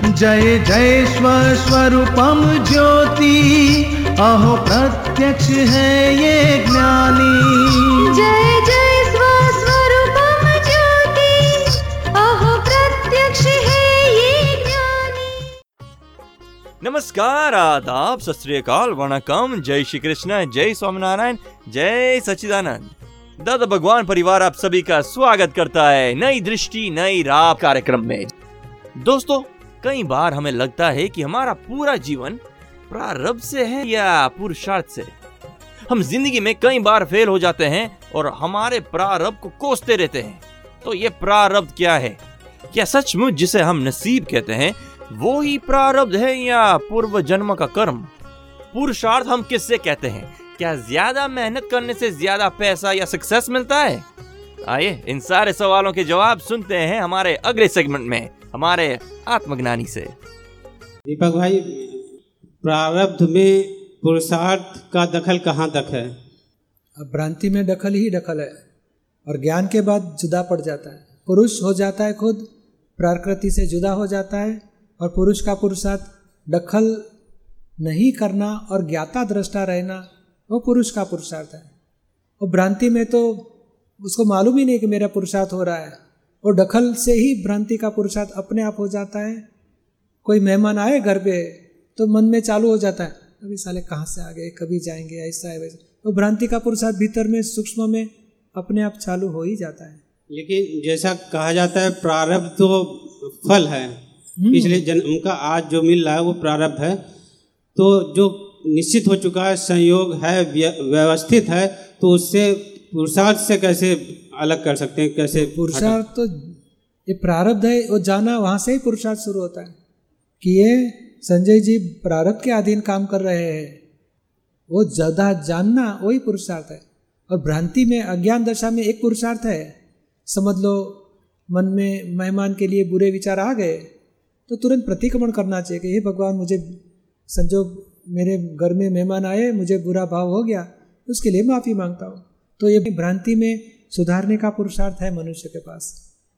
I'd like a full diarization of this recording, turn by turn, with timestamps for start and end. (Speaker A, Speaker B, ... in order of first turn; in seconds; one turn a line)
Speaker A: 0.2-7.6
Speaker B: 8.0-15.4
Speaker C: 16.8-28.3
Speaker C: 29.0-35.1
Speaker C: 35.9-42.2
Speaker C: 42.7-48.1
Speaker C: 48.7-54.0
Speaker C: 54.6-60.1
Speaker D: 61.0-62.0
Speaker D: 62.6-66.1
Speaker E: 67.0-68.5
Speaker E: 69.2-72.4
Speaker E: 73.0-77.0
Speaker E: 77.8-81.7
Speaker E: 82.4-83.5
Speaker E: 84.0-89.4
Speaker E: 90.2-100.0
Speaker D: 100.3-104.0
Speaker E: 104.4-104.8
Speaker D: 104.5-107.0
Speaker D: 107.8-116.0
Speaker E: 115.6-116.5
Speaker E: 117.1-119.8
Speaker E: 120.4-123.8
Speaker E: 124.7-129.7
Speaker E: 130.3-133.9
Speaker E: 134.5-136.8
Speaker E: 137.3-146.0